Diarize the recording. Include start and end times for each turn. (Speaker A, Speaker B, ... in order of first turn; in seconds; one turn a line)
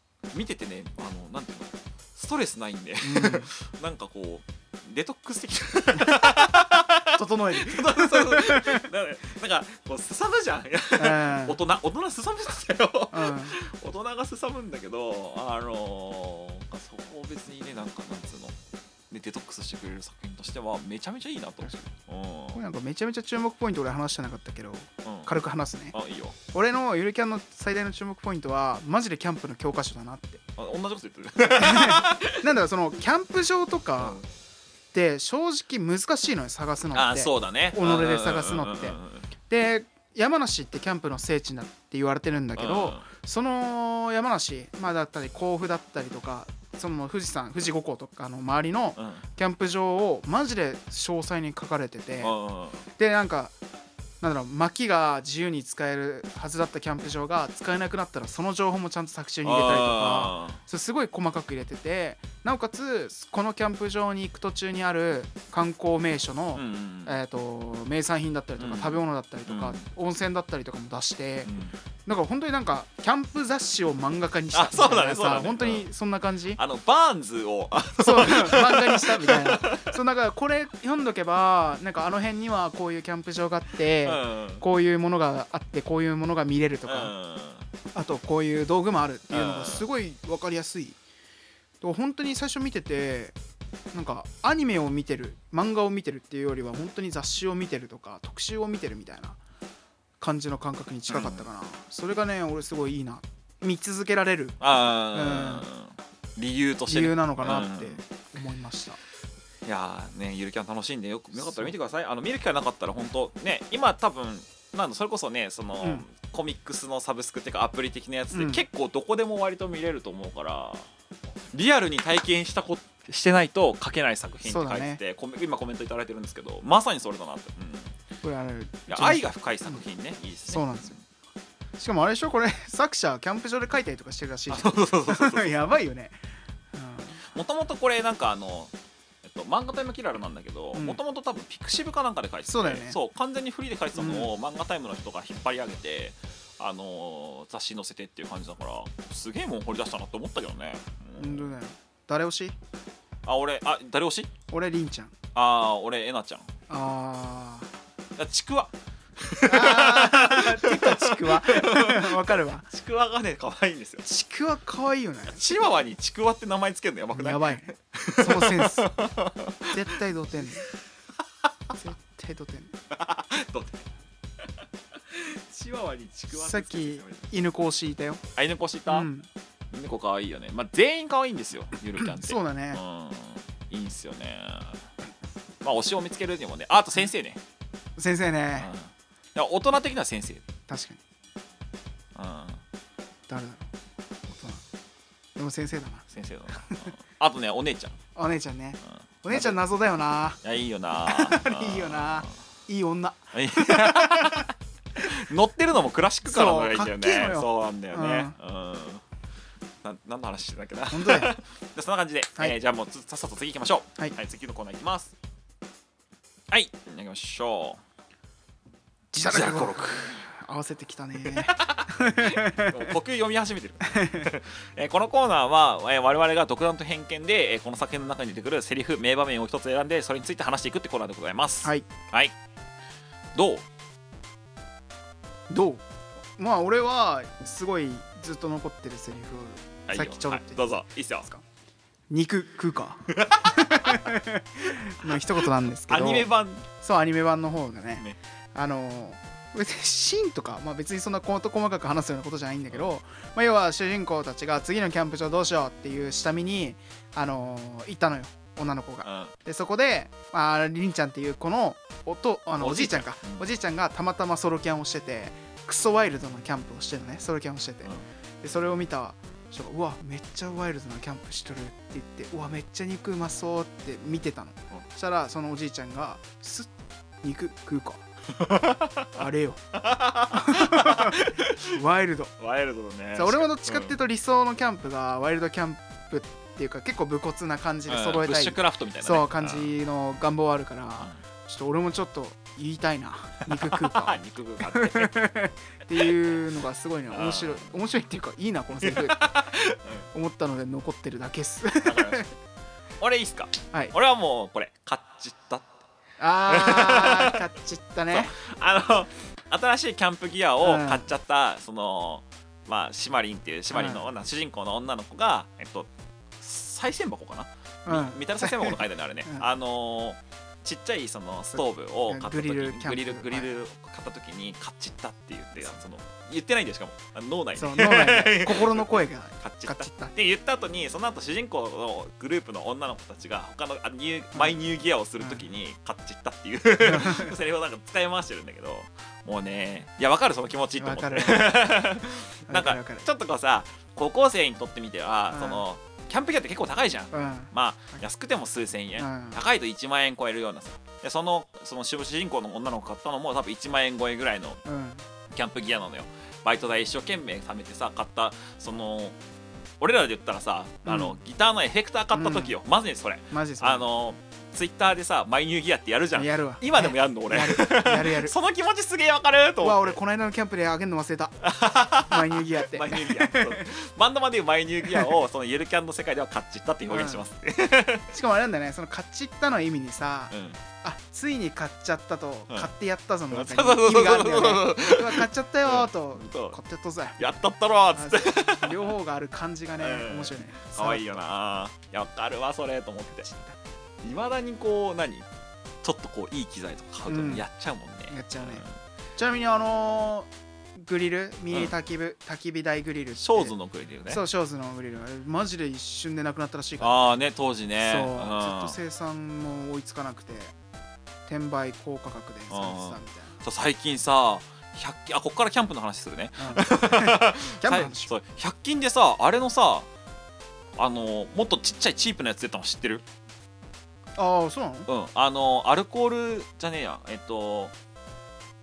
Speaker A: 0.3-18.6
Speaker B: 3.0-3.5
Speaker B: 6.0-8.8
Speaker B: 11.0-11.6
Speaker B: 13.1-13.6
Speaker A: 19.1-22.6
Speaker B: 21.6-21.9
Speaker B: 22.5-26.0
Speaker A: 25.0-25.4
Speaker A: 25.9-26.4
Speaker B: 26.5-30.4
Speaker A: 30.6-32.5
Speaker B: 31.5-34.2
Speaker A: 34.0-34.3
Speaker B: 34.9-39.0
Speaker A: 36.9-39.3
Speaker B: 39.5-52.4
Speaker A: 42.6-43.0
Speaker A: 49.0-49.2
Speaker A: 52.2-52.9
Speaker B: 53.0-53.5
Speaker B: 54.2-71.5
Speaker A: 59.4-60.6
Speaker A: 66.5-67.2
Speaker A: 68.6-69.8
Speaker A: 71.5-71.8
Speaker B: 72.1-76.6
Speaker A: 74.5-75.9
Speaker A: 76.6-79.9
Speaker B: 78.0-87.1
Speaker A: 84.0-84.6
Speaker A: 86.8-87.7
Speaker B: 87.9-91.0
Speaker A: 89.3-89.9
Speaker B: 91.8-93.4
Speaker B: 93.9-99.4
Speaker B: 100.2-104.6
Speaker A: 101.1-101.5
Speaker A: 104.6-108.0
Speaker B: 105.1-105.7
Speaker B: 106.9-109.0
Speaker A: 109.6-120.9
Speaker B: 111.4-111.7
Speaker B: 115.8-116.0
Speaker B: 118.3-118.7
Speaker A: 121.5-128.0
Speaker B: 124.5-125.0
Speaker B: 128.2-129.8
Speaker A: 128.9-131.0
Speaker B: 130.5-131.0
Speaker B: 131.8-136.2
Speaker A: 134.5-135.7
Speaker B: 136.7-137.2
Speaker A: 137.3-151.6
Speaker B: 140.7-141.0
Speaker B: 142.5-143.0
Speaker B: 144.0-144.3
Speaker B: 151.2-152.6
Speaker A: 153.2-154.3
Speaker B: 154.5-155.1
Speaker A: 155.3-156.5
Speaker B: 156.7-157.7
Speaker A: 158.2-164.1
Speaker B: 159.4-162.7
Speaker B: 164.0-165.6
Speaker A: 165.3-169.9
Speaker B: 167.1-169.1
Speaker B: 169.7-170.7
Speaker B: 171.8-172.8
Speaker A: 172.9-173.9
Speaker A: 174.4-177.3
Speaker B: 176.3-178.2
Speaker A: 178.4-179.1
Speaker B: 178.9-179.3
Speaker A: 179.7-184.8
Speaker B: 182.0-182.8
Speaker A: 185.6-187.4
Speaker B: 188.0-188.7
Speaker A: 188.6-190.4
Speaker B: 190.7-191.0
Speaker A: 192.2-192.6
Speaker B: 193.3-193.7
Speaker B: 194.3-194.6
Speaker B: 195.4-196.1
Speaker A: 196.1-198.0
Speaker B: 196.6-196.9
Speaker B: 198.2-200.4
Speaker A: 199.3-199.6
Speaker A: 200.4-202.3
Speaker B: 201.1-204.5
Speaker A: 203.3-209.0
Speaker B: 206.2-208.3
Speaker A: 209.8-215.2
Speaker B: 210.9-211.4
Speaker A: 216.5-217.8
Speaker B: 219.1-222.9
Speaker A: 219.1-220.2
Speaker A: 221.2-232.3
Speaker B: 223.8-224.3
Speaker A: 233.3-233.7
Speaker B: 235.5-235.8
Speaker B: 236.4-240.7
Speaker A: 239.9-241.3
Speaker B: 242.1-276.7
Speaker A: 243.1-244.2
Speaker A: 245.0-246.7
Speaker A: 259.0-259.3
Speaker A: 262.6-263.5
Speaker B: 277.2-278.0
Speaker A: 278.3-281.8
Speaker B: 279.1-279.6
Speaker B: 280.3-282.4
Speaker A: 282.4-284.0
Speaker B: 283.1-299.4
Speaker A: 287.9-289.8
Speaker A: 293.5-295.1
Speaker A: 297.1-297.7
Speaker A: 298.8-300.1
Speaker B: 300.1-302.3
Speaker A: 301.8-302.3
Speaker A: 303.0-305.7
Speaker B: 306.2-308.3
Speaker A: 306.5-307.4
Speaker A: 308.1-354.6
Speaker B: 310.6-311.1
Speaker B: 313.7-314.1
Speaker B: 317.9-319.5
Speaker B: 321.6-323.5
Speaker B: 327.6-330.1
Speaker B: 336.8-337.4
Speaker B: 340.8-341.8
Speaker B: 342.5-343.1
Speaker B: 345.3-345.6
Speaker B: 347.1-348.0
Speaker B: 349.0-349.4
Speaker B: 354.6-355.1
Speaker A: 355.3-359.2
Speaker A: 359.8-370.0
Speaker B: 360.9-361.2
Speaker B: 362.1-362.6
Speaker B: 363.3-363.9
Speaker B: 366.1-368.3
Speaker B: 369.6-371.4
Speaker A: 371.4-378.1
Speaker B: 372.1-373.7
Speaker B: 374.9-375.1
Speaker B: 376.9-377.3
Speaker B: 378.1-387.2
Speaker A: 380.3-380.6
Speaker A: 383.3-386.6
Speaker A: 387.2-388.9
Speaker B: 387.9-391.2
Speaker A: 389.8-393.3
Speaker B: 393.2-393.6
Speaker A: 394.0-395.3
Speaker A: 395.8-398.7
Speaker B: 397.1-397.5
Speaker B: 398.1-398.6
Speaker B: 399.2-403.5
Speaker A: 403.2-404.2
Speaker B: 404.1-406.9
Speaker A: 406.8-408.8
Speaker B: 407.8-410.5
Speaker B: 411.3-413.3
Speaker A: 412.5-419.9
Speaker B: 416.4-418.1
Speaker A: 420.8-423.0
Speaker B: 424.2-424.9
Speaker A: 424.9-427.7